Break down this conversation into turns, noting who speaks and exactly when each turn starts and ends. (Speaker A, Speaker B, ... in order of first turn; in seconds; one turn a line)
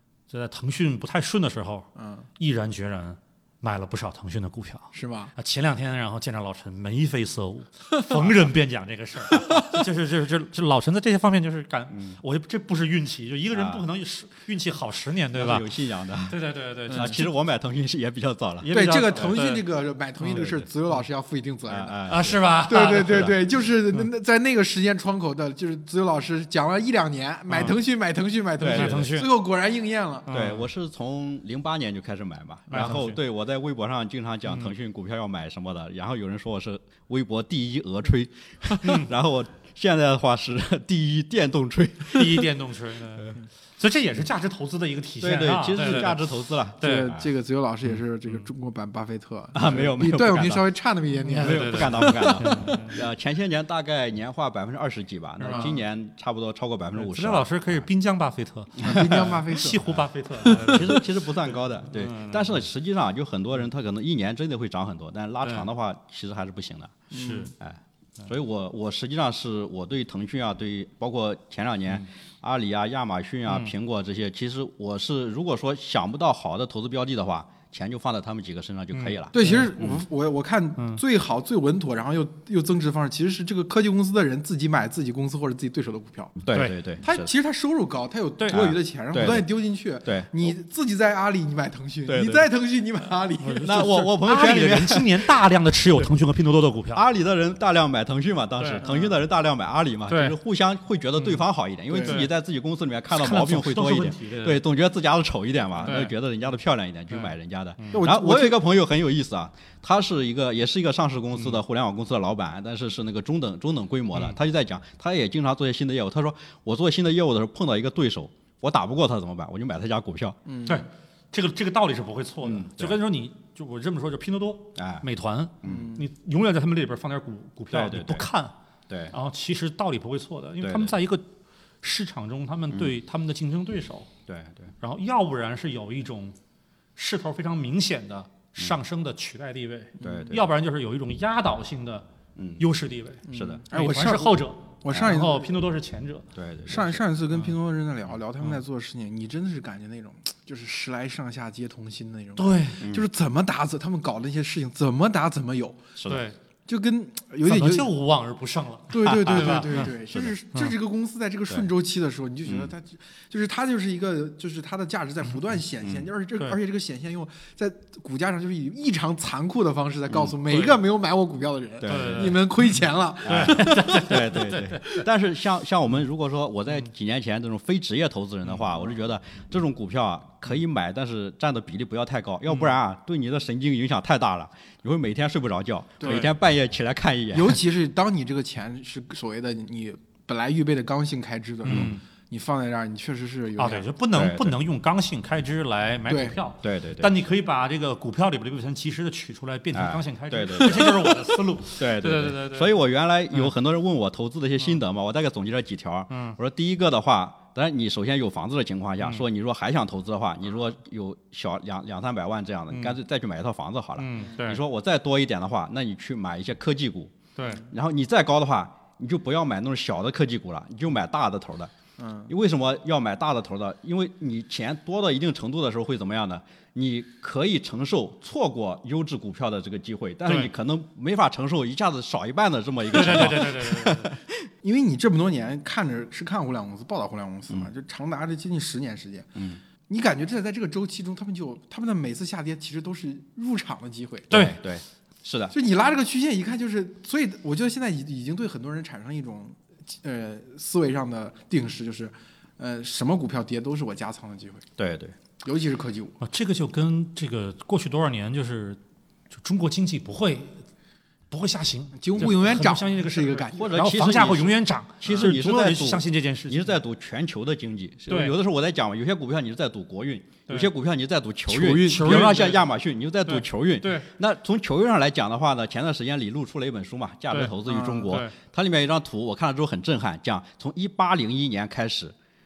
Speaker A: 0.3-15.7
Speaker B: 1.9-2.3
Speaker B: 4.9-5.3
Speaker B: 9.4-9.8
Speaker C: 11.9-12.2
Speaker C: 13.5-13.8
Speaker C: 15.3-19.4
Speaker A: 16.2-17.2
Speaker B: 16.9-17.2
Speaker A: 18.6-19.7
Speaker B: 18.7-30.3
Speaker A: 20.2-20.6
Speaker C: 21.7-22.4
Speaker A: 22.1-23.4
Speaker C: 28.6-29.1
Speaker A: 28.6-29.3
Speaker A: 30.3-30.7
Speaker C: 30.3-42.5
Speaker A: 32.7-33.2
Speaker A: 38.8-39.1
Speaker A: 42.1-46.2
Speaker C: 45.2-47.2
Speaker A: 46.8-47.2
Speaker B: 46.8-52.9
Speaker C: 49.5-50.7
Speaker A: 51.2-53.0
Speaker C: 51.3-57.8
Speaker A: 55.4-55.7
Speaker B: 55.5-55.8
Speaker A: 56.9-61.0
Speaker B: 58.8-59.9
Speaker B: 60.4-60.9
Speaker C: 60.5-67.0
Speaker A: 61.9-62.5
Speaker A: 67.1-67.5
Speaker B: 67.1-67.5
Speaker C: 67.6-80.0
Speaker A: 73.5-73.7
Speaker A: 78.9-79.7
Speaker B: 79.3-86.5
Speaker A: 80.8-81.0
Speaker C: 86.4-87.3
Speaker A: 86.5-86.8
Speaker B: 87.0-93.9
Speaker A: 88.4-88.6
Speaker C: 88.5-89.5
Speaker C: 90.0-90.5
Speaker C: 92.1-92.5
Speaker A: 93.4-97.0
Speaker C: 93.6-95.3
Speaker C: 96.9-120.4
Speaker A: 98.6-98.8
Speaker B: 98.8-99.2
Speaker A: 100.1-100.4
Speaker B: 101.9-102.3
Speaker A: 102.0-102.3
Speaker A: 103.1-104.6
Speaker B: 105.8-106.1
Speaker A: 105.8-106.1
Speaker A: 107.1-108.0
Speaker B: 107.9-108.6
Speaker B: 120.5-120.8
Speaker A: 120.7-128.5
Speaker C: 122.4-123.0
Speaker C: 124.8-125.0
Speaker C: 125.6-125.9
Speaker B: 125.6-126.1
Speaker C: 127.7-128.3
Speaker C: 128.9-129.1
Speaker A: 129.1-131.2
Speaker C: 130.6-130.9
Speaker A: 131.8-134.1
Speaker C: 134.3-134.7
Speaker A: 134.8-136.3
Speaker A: 137.0-142.1
Speaker B: 140.0-140.3
Speaker C: 140.0-140.5
Speaker C: 142.3-142.7
Speaker A: 142.6-147.5
Speaker B: 143.3-145.5
Speaker C: 143.3-143.7
Speaker C: 146.3-147.0
Speaker B: 146.7-155.9
Speaker A: 152.3-152.8
Speaker C: 152.8-153.1
Speaker C: 156.0-156.2
Speaker A: 156.1-156.3
Speaker B: 156.7-157.9
Speaker A: 157.4-159.9
Speaker B: 158.9-175.0
Speaker C: 159.1-160.3
Speaker C: 162.5-162.7
Speaker A: 170.5-170.8
Speaker C: 171.8-172.4
Speaker A: 171.8-172.5
Speaker A: 173.2-175.0
Speaker C: 173.2-187.6
Speaker B: 186.0-186.3
Speaker A: 186.0-186.3
Speaker B: 187.3-193.8
Speaker A: 191.6-192.0
Speaker C: 191.7-191.9
Speaker A: 193.6-202.7
Speaker C: 194.1-194.6
Speaker B: 196.1-196.4
Speaker C: 196.6-197.1
Speaker C: 199.7-221.7
Speaker A: 206.1-206.4
Speaker A: 212.7-213.0
Speaker A: 214.0-214.6
Speaker A: 217.3-217.7
Speaker B: 222.0-222.3
Speaker C: 222.3-234.5
Speaker A: 230.2-230.5
Speaker A: 232.9-234.1
Speaker B: 234.6-239.3
Speaker C: 239.3-239.6
Speaker B: 239.9-244.3
Speaker C: 244.3-245.5
Speaker A: 244.3-244.6
Speaker B: 245.5-254.7
Speaker C: 254.8-255.2
Speaker B: 255.4-256.2
Speaker A: 256.2-258.8
Speaker A: 259.3-260.6
Speaker A: 261.3-266.7
Speaker B: 261.9-263.9
Speaker C: 263.5-282.1
Speaker A: 268.1-268.4
Speaker B: 271.5-272.4
Speaker A: 271.7-272.6
Speaker A: 273.2-274.1
Speaker A: 277.3-278.3
Speaker B: 277.6-278.2